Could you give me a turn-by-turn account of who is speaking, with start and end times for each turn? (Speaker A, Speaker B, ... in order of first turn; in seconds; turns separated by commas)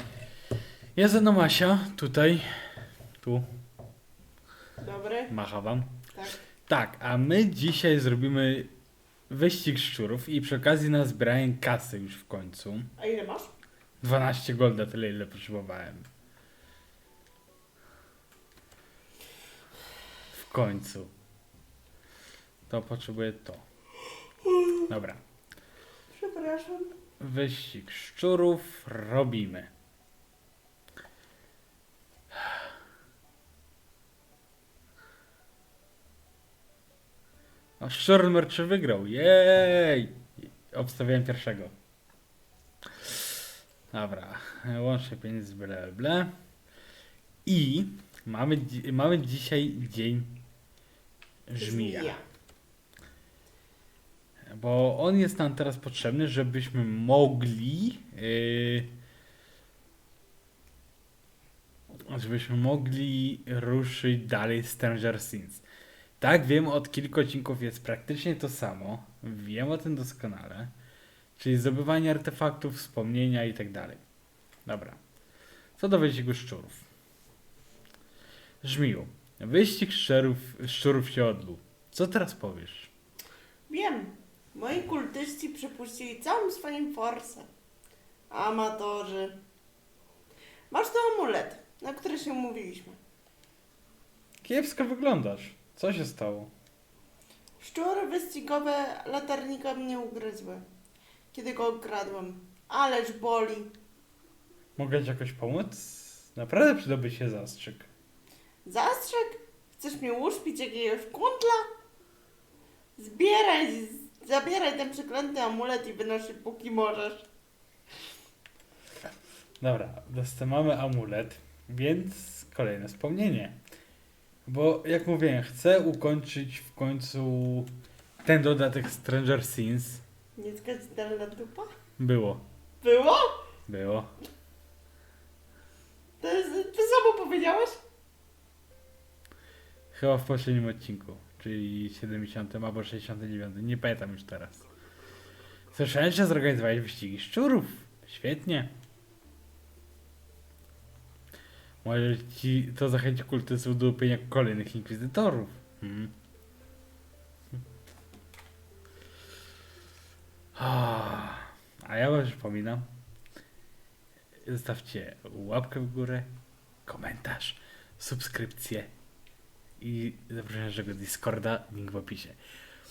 Speaker A: 1.0-3.5, Speaker B: 4.8-5.3, Speaker A: 5.3-6.0, Speaker A: 6.7-8.7, Speaker A: 9.3-12.9, Speaker B: 13.0-13.5, Speaker A: 14.0-16.1, Speaker A: 20.3-21.1, Speaker A: 22.7-23.6, Speaker A: 24.9-25.2, Speaker B: 26.1-27.0, Speaker A: 27.2-29.7, Speaker A: 37.8-41.7, Speaker A: 43.0-43.4, Speaker A: 43.9-46.3, Speaker A: 47.5-50.4, Speaker A: 51.5-52.2, Speaker B: 51.6-52.2, Speaker A: 54.5-58.9, Speaker A: 62.1-65.6, Speaker A: 66.2-70.7, Speaker A: 71.4-74.0, Speaker A: 74.7-75.0, Speaker A: 75.8-76.8, Speaker A: 78.6-82.9, Speaker B: 83.7-87.5, Speaker B: 88.3-89.4, Speaker B: 90.7-93.0, Speaker A: 94.4-96.5, Speaker B: 97.6-100.6, Speaker B: 101.3-103.7, Speaker A: 104.8-107.9, Speaker B: 108.7-111.7, Speaker B: 113.0-117.3, Speaker A: 119.6-123.6, Speaker A: 124.5-127.7, Speaker A: 128.2-130.0, Speaker B: 130.4-131.7, Speaker A: 132.0-132.4, Speaker B: 132.8-133.4, Speaker A: 133.7-134.1, Speaker B: 136.2-137.8, Speaker A: 139.9-144.6, Speaker A: 145.7-148.7, Speaker A: 151.8-156.1, Speaker A: 160.6-162.9, Speaker A: 164.4-166.3, Speaker A: 166.9-168.9, Speaker A: 169.8-172.4